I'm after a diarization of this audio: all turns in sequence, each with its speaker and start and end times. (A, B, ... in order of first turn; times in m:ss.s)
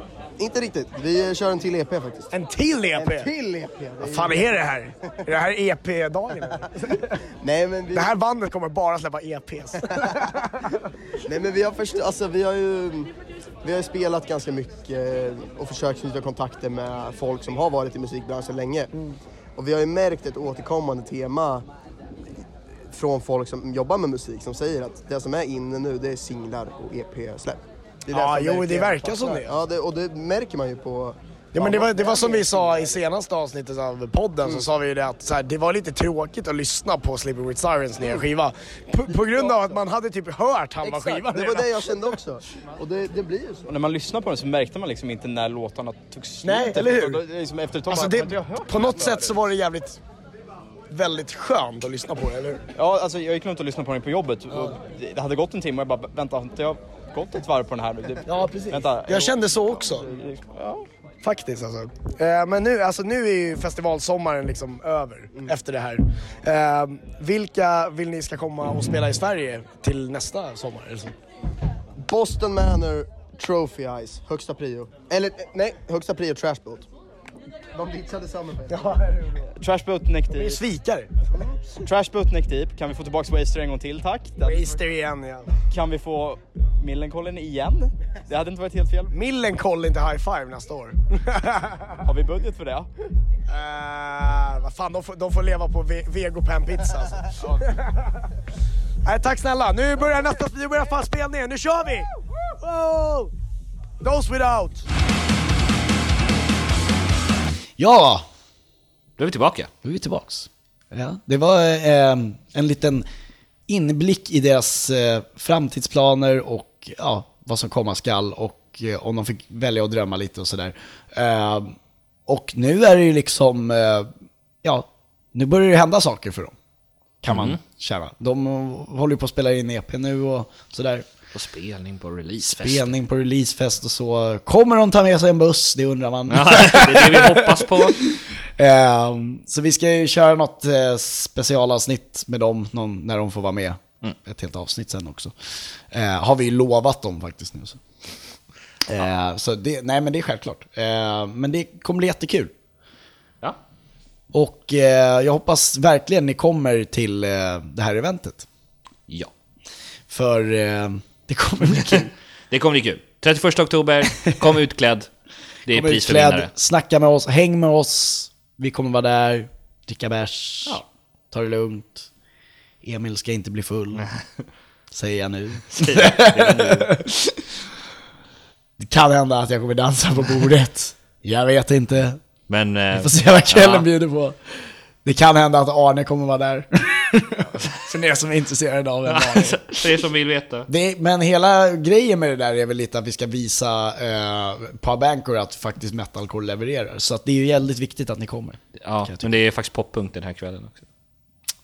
0:00.4-0:02.3 A
0:02.3-0:03.3 B
0:02.9-0:05.2 A
0:04.0-0:07.2 B
0:06.6-0:08.1 A
0:07.9-0:10.8 B
0:09.8-0:10.2 A
0:11.2-0:13.1 A
0:13.6-0:18.9 A
0:19.6-0:21.6 A
0:22.9-0:33.0 A
0:28.1-0:29.6 B
0:31.5-0:42.0 B
0:39.1-0:39.8 A
0:40.8-0:43.7 A
0:43.7-0:49.4 C
0:46.4-0:47.2 B
0:47.9-0:50.0 B
0:50.9-0:52.6 B
0:52.7-1:00.9 C
0:58.2-1:00.1 B
1:01.2-1:11.1 B
1:12.0-1:16.9 A
1:17.7-1:19.0 A
1:18.7-1:19.5 B
1:19.6-1:20.6 C
1:20.3-1:21.1 B
1:21.8-1:24.8 C
1:24.4-1:25.5 B
1:25.7-1:29.1 C
1:29.1-1:32.0 B
1:32.0-1:32.9 C
1:33.5-1:37.3 B
1:39.0-1:43.3 B
1:44.0-1:44.8 B
1:47.8-1:48.2 D
1:49.2-1:49.7 E
1:49.8-1:53.0 D
1:53.7-2:01.8 D
2:02.3-2:04.1 D
2:04.6-2:06.5 D
2:07.2-2:11.0 D
2:07.3-2:07.6 E
2:11.3-2:12.9 E
2:12.4-2:25.3 D
2:16.3-2:18.0 E
2:25.9-2:27.8 D
2:28.9-2:32.5 D
2:34.3-2:38.5 D
2:40.1-2:42.1 D
2:42.5-2:45.1 E
2:45.6-2:46.5 E
2:45.7-2:52.1 D
2:52.8-2:54.0 D
2:54.0-2:54.2 E
2:54.9-2:57.4 D
2:55.7-2:56.9 E
2:58.8-3:02.2 D
3:02.5-3:03.9 E
3:02.9-3:04.4 D
3:05.0-3:09.9 D
3:09.0-3:10.7 E
3:10.7-3:19.3 D
3:18.8-3:20.8 E